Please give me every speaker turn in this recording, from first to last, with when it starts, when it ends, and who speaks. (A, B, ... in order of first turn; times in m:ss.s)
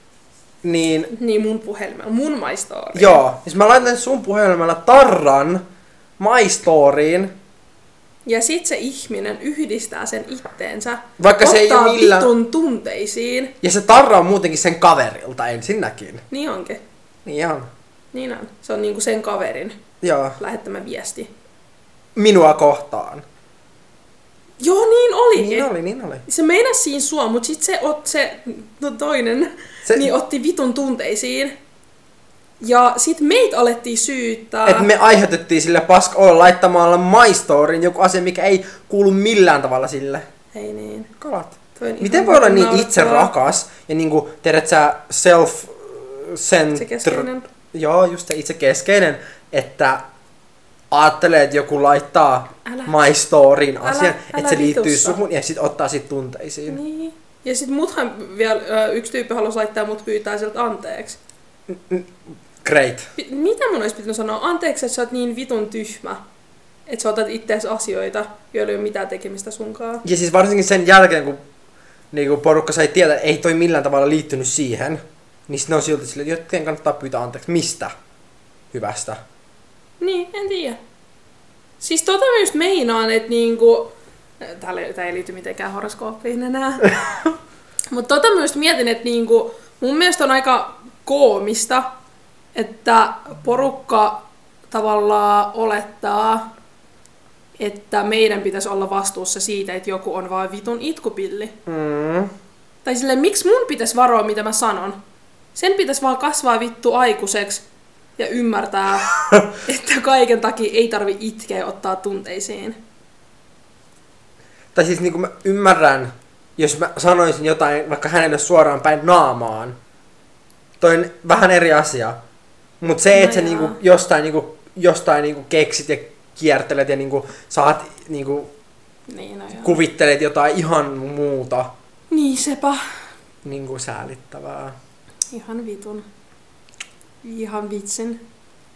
0:00.6-0:01.1 A
0:01.1-0:03.2 B
0:02.9-0:05.6 A
0:06.2-0:07.4 A
0:08.3-0:13.6 B
0:11.2-0:12.3 A
0:13.6-0:16.2 A
0:16.3-0:16.8 B
0:17.2-0:17.7 A
0:18.1-0:19.8 B
0:20.0-0:20.4 A
0:20.4-0:21.3 B
0:22.2-0:23.2 A
0:24.6-0:25.7 B
0:25.4-0:26.2 A
0:26.3-0:31.5 B
0:29.8-0:30.1 A
0:32.6-0:34.9 B
0:34.6-0:40.3 A
0:40.5-0:41.1 B
0:41.2-0:50.1 A
0:41.8-0:43.3 B
0:46.7-0:47.5 B
0:50.9-0:56.8 A
0:52.6-0:53.1 B
0:53.8-0:55.2 B
0:56.7-1:01.2 B
1:01.7-1:03.1 A
1:03.2-1:06.2 B
1:06.9-1:10.0 B
1:10.0-1:11.4 A
1:12.1-1:17.9 A
1:18.7-1:19.2 A
1:20.0-1:20.8 B
1:21.8-1:27.2 B
1:27.9-1:31.9 B
1:32.6-1:36.5 B
1:37.6-1:41.6 B
1:41.7-1:42.3 A
1:42.8-1:45.0 B
1:45.6-1:47.6 B
1:48.2-1:52.8 B
1:54.7-1:59.8 A
2:00.8-2:02.2 A
2:02.8-2:08.5 A
2:03.1-2:03.8 B
2:09.1-2:09.8 B
2:09.6-2:11.7 A
2:12.1-2:12.8 B
2:13.4-2:14.8 A
2:15.3-2:16.1 B
2:17.2-2:18.2 B